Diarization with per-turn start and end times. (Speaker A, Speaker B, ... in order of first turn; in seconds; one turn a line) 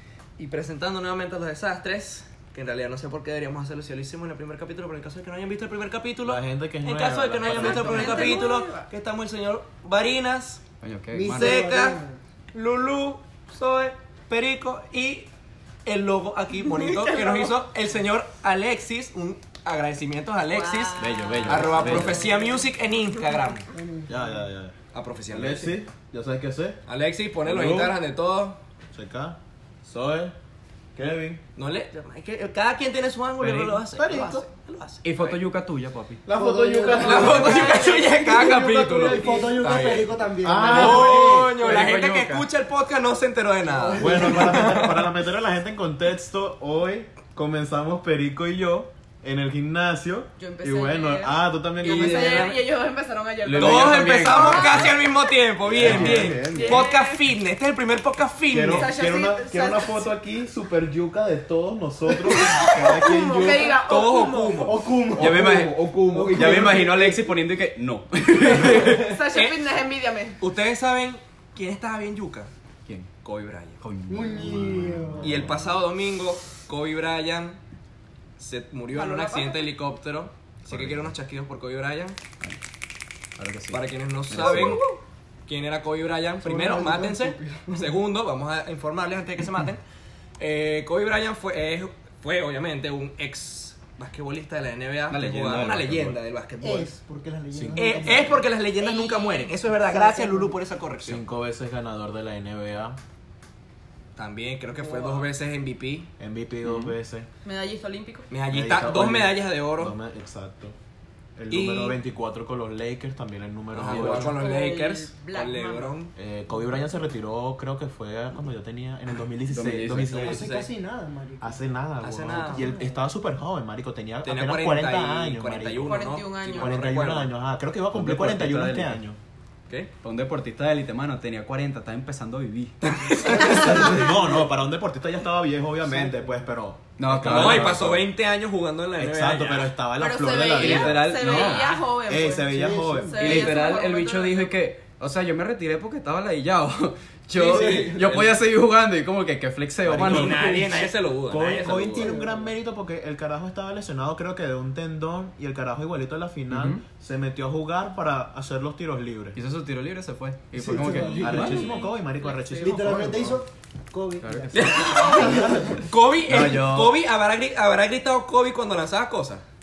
Speaker A: 0.4-10.6
Speaker B: 6.2-8.4
Speaker C: 7.5-8.9
Speaker D: 10.8-11.7
Speaker E: 11.1-12.2
Speaker A: 11.3-12.0
Speaker A: 12.5-15.3
Speaker A: 15.8-23.7
Speaker C: 16.7-17.5
Speaker C: 20.5-22.6
Speaker D: 21.0-22.2
Speaker B: 21.7-22.2
Speaker E: 23.7-24.4
Speaker B: 24.1-24.8
Speaker A: 24.9-25.8
Speaker B: 25.3-26.8
Speaker A: 26.9-28.6
Speaker B: 27.4-28.0
Speaker B: 28.9-30.3
Speaker B: 30.9-31.4
Speaker A: 31.6-35.4
Speaker D: 33.4-33.8
Speaker B: 33.9-34.5
Speaker D: 35.0-36.2
Speaker B: 36.2-38.0
Speaker E: 36.3-41.4
Speaker A: 36.9-45.0
Speaker C: 37.1-38.2
Speaker B: 39.0-39.4
Speaker B: 40.4-41.7
Speaker D: 41.5-42.5
Speaker E: 43.8-44.9
Speaker C: 43.8-44.1
Speaker B: 44.0-52.5
Speaker C: 50.4-54.9
Speaker A: 51.8-52.6
Speaker D: 53.4-55.0
Speaker A: 53.5-58.9
Speaker B: 55.6-56.9
Speaker D: 55.8-56.4
Speaker C: 56.5-57.2
Speaker B: 58.5-63.8
Speaker C: 58.6-60.1
Speaker C: 62.1-64.7
Speaker A: 63.7-64.8
Speaker E: 64.6-67.2
Speaker B: 65.1-67.0
Speaker D: 65.2-69.1
Speaker C: 68.6-70.4
Speaker A: 68.8-69.6
Speaker A: 70.4-72.5
Speaker D: 72.8-73.1
Speaker A: 73.2-73.8
Speaker D: 73.8-75.2
Speaker E: 74.1-75.4
Speaker A: 75.2-77.6
Speaker A: 78.4-82.2
Speaker C: 78.9-79.7
Speaker D: 80.7-81.0
Speaker D: 83.4-84.8
Speaker A: 83.7-84.8
Speaker C: 84.4-85.0
Speaker A: 85.5-89.8
Speaker E: 86.4-88.0
Speaker A: 90.4-96.9
Speaker B: 95.1-96.2
Speaker E: 96.6-98.5
Speaker B: 97.5-98.1
Speaker A: 97.7-101.2
Speaker C: 98.7-99.6
Speaker E: 99.9-100.6
Speaker B: 101.0-103.0
Speaker A: 104.2-106.1
Speaker E: 104.8-105.2
Speaker B: 106.2-107.3
Speaker D: 106.6-107.0
Speaker C: 107.4-108.3
Speaker A: 108.3-110.0
Speaker B: 108.5-110.8
Speaker B: 111.4-114.4
Speaker A: 111.5-112.0
Speaker A: 113.7-116.1
Speaker D: 113.9-114.3
Speaker C: 114.3-116.0
Speaker B: 116.2-120.5
Speaker D: 119.5-120.4
Speaker A: 120.0-120.7
Speaker E: 120.2-121.6
Speaker B: 121.4-129.2
Speaker A: 122.0-122.7
Speaker E: 122.3-123.1
Speaker A: 124.2-127.3
Speaker C: 125.8-126.8
Speaker D: 127.9-129.0
Speaker D: 130.0-133.2
Speaker A: 132.8-134.0
Speaker B: 133.3-138.1
Speaker E: 133.4-134.0
Speaker E: 135.8-136.5
Speaker D: 137.0-137.8
Speaker A: 137.2-139.7
Speaker B: 139.0-143.5
Speaker C: 139.9-144.6
Speaker D: 140.6-141.8
Speaker E: 142.3-143.5
Speaker D: 143.2-150.5
Speaker A: 147.3-148.2
Speaker B: 147.5-148.2
Speaker B: 149.8-150.7
Speaker A: 150.0-152.2
Speaker E: 150.1-150.9
Speaker B: 151.3-159.4
Speaker E: 151.9-152.6
Speaker D: 156.5-156.8
Speaker D: 159.3-161.7
Speaker E: 160.5-161.8
Speaker C: 161.1-163.1
Speaker B: 161.2-163.4
Speaker E: 162.6-165.9
Speaker D: 164.2-164.9
Speaker A: 164.5-169.4
Speaker C: 164.8-165.4
Speaker B: 165.1-165.8
Speaker D: 166.2-167.0